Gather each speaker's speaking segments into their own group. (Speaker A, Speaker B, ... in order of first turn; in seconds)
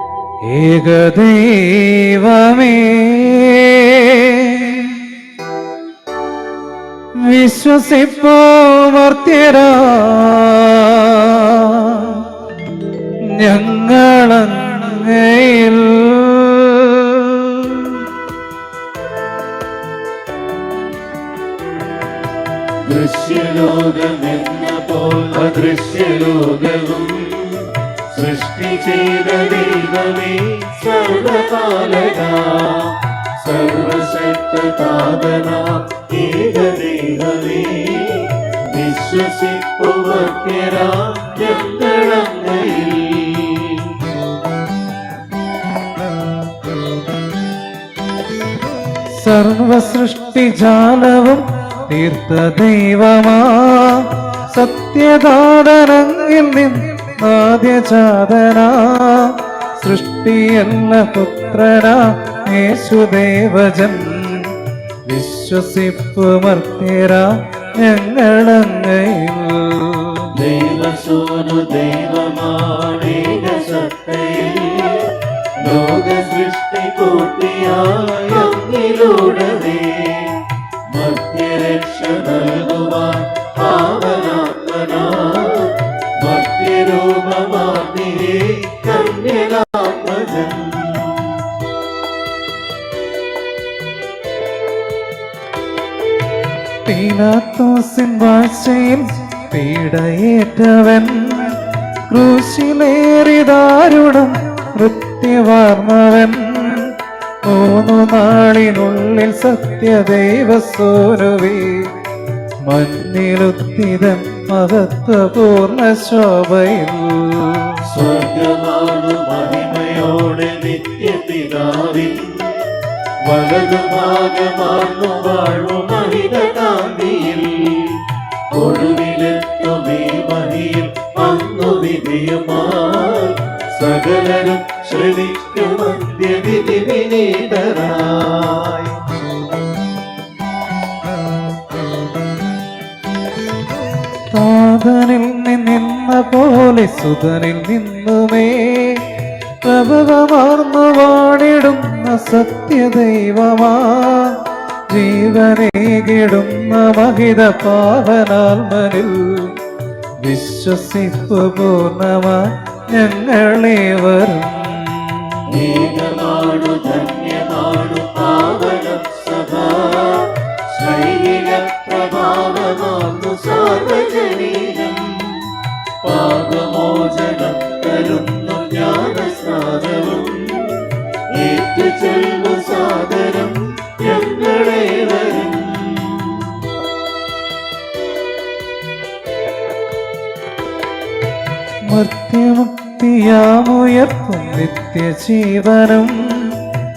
Speaker A: 0.4-5.1, 7.2-12.3, 13.3-18.1, 49.1-64.5, 65.0-70.3, 96.8-111.9, 112.6-117.8, 144.3-159.6, 160.2-165.4, 191.9-196.7
Speaker B: 22.8-44.1, 70.3-91.5, 117.8-139.1, 165.5-186.7